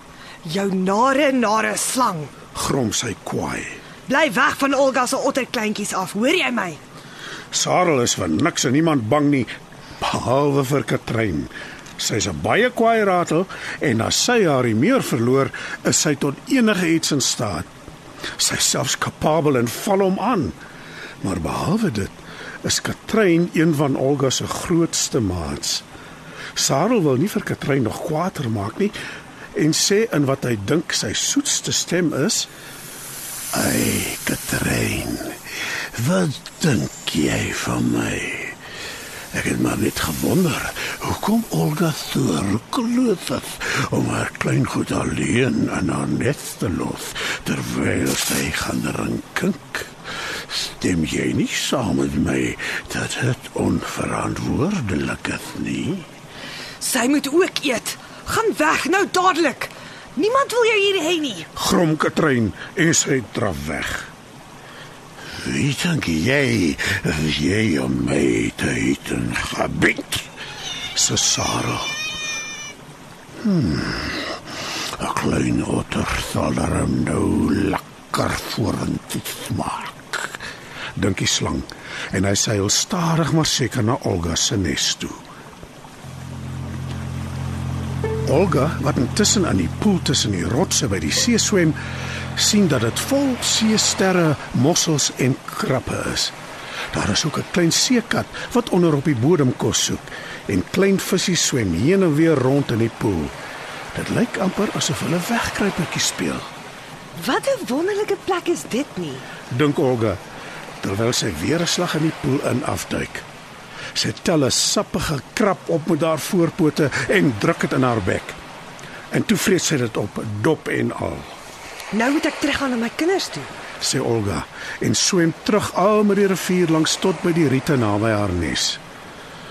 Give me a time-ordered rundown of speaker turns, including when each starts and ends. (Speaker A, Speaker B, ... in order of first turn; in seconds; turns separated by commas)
Speaker A: 0.4-2.3, Speaker B: 2.5-3.8, Speaker A: 4.1-6.8, Speaker B: 7.5-17.7, Speaker B: 18.4-20.6, Speaker B: 21.2-25.8, Speaker B: 26.5-28.9, Speaker B: 29.5-32.5, Speaker B: 33.5-38.6, Speaker B: 39.3-49.9, Speaker B: 50.5-56.1, Speaker A: 56.8-61.5, Speaker B: 61.5-64.1, Speaker B: 65.3-70.3, Speaker B: 70.9-72.0, Speaker B: 73.4-74.4, Speaker B: 74.9-80.4, Speaker B: 81.0-85.2, Speaker B: 88.2-91.8, Speaker B: 92.3-96.3, Speaker B: 96.9-103.3, Speaker B: 103.9-106.5, Speaker A: 107.2-109.2, Speaker B: 109.5-110.2, Speaker B: 110.8-113.2, Speaker B: 113.9-118.4, Speaker B: 119.1-121.3, Speaker A: 121.9-123.5, Speaker B: 123.8-128.8